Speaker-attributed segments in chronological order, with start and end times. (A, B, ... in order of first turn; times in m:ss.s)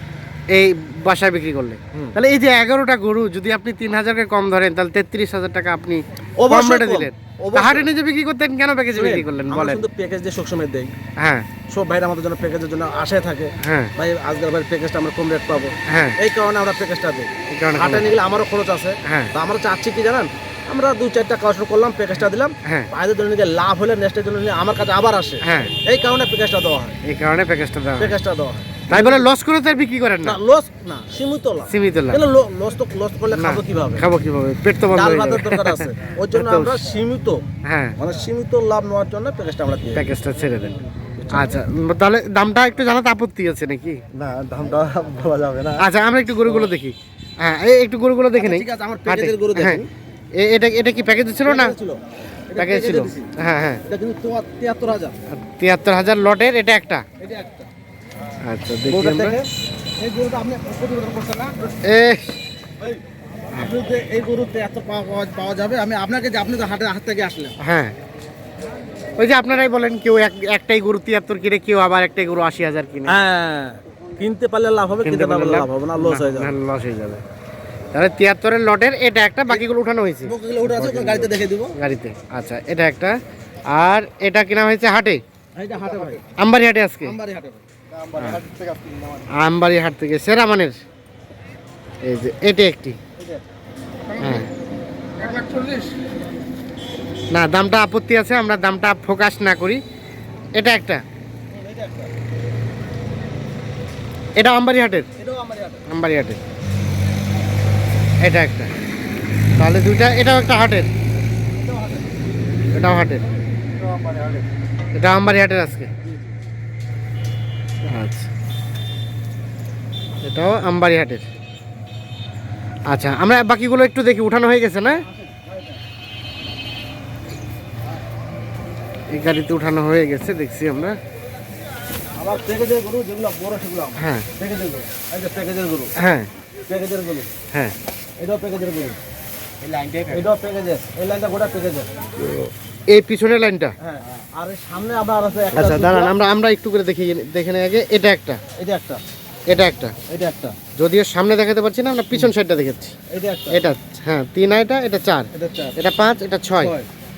0:00.5-0:09.8 A
0:06.4-0:07.9 B
0:08.9-0:10.9 B
0:11.2-0:11.5 A
0:11.7-0:27.0 B
0:13.6-0:13.9 A
0:15.9-0:16.2 A
0:17.5-0:18.1 A
0:19.0-0:19.3 A
0:22.6-0:22.9 A
0:25.4-0:25.7 A
0:27.0-0:28.2 A
0:28.0-0:29.2 B
0:28.9-0:30.4 A
0:30.2-0:34.0 B
0:31.7-0:32.2 A
0:33.3-0:36.8 A
0:34.9-0:37.4 B
0:37.6-0:38.0 A
0:38.0-0:40.1 B
0:39.9-0:40.7 A
0:41.3-0:44.0 A
0:44.1-0:45.8 C
0:45.8-0:49.8 A
0:48.4-0:49.9 B
0:50.4-0:51.7 A
0:51.4-0:53.3 B
0:52.6-0:53.8 A
0:53.8-0:55.2 B
0:55.3-0:57.0 A
0:57.2-0:57.7 B
0:58.4-0:59.4 A
0:58.8-1:01.8 B
1:01.8-1:02.3 A
1:03.5-1:07.5 B
1:07.6-1:07.9 A
1:09.2-1:13.2 A
1:13.1-1:16.5 B
1:15.0-1:17.2 A
1:17.9-1:23.1 A
1:20.2-1:21.7 B
1:23.7-1:25.2 A
1:25.6-1:26.2 B
1:26.4-1:27.2 A
1:27.0-1:27.6 B
1:27.9-1:29.3 C
1:29.3-1:30.8 A
1:32.0-1:33.0 A
1:34.1-1:34.4 B
1:34.2-1:34.5 A
1:35.2-1:36.0 B
1:37.3-1:39.8 A
1:40.5-1:41.0 A
1:41.5-1:42.1 B
1:44.4-1:45.1 A
1:45.2-1:45.8 B
1:45.9-1:46.4 A
1:48.2-1:48.7 A
1:49.6-1:50.9 A
1:51.6-1:52.1 B
1:52.7-1:53.2 A
1:53.8-1:54.4 C
1:54.9-1:55.9 A
1:57.8-1:58.3 A
2:00.2-2:01.3 A
2:02.9-2:05.0 A
2:09.1-2:11.0 A
2:12.2-2:15.9 B
2:14.0-2:14.2 A
2:16.0-2:16.3 A
2:16.7-2:17.3 B
2:18.2-2:19.0 B
2:20.1-2:21.9 B
2:22.2-2:22.5 C
2:22.9-2:23.8 A
2:23.8-2:26.1 B
2:25.5-2:28.4 A
2:28.6-2:29.0 B
2:29.5-2:29.9 A
2:30.1-2:30.6 B
2:30.8-2:32.9 A
2:33.1-2:33.6 B
2:33.5-2:36.7 A
2:35.3-2:35.8 B
2:36.6-2:36.9 B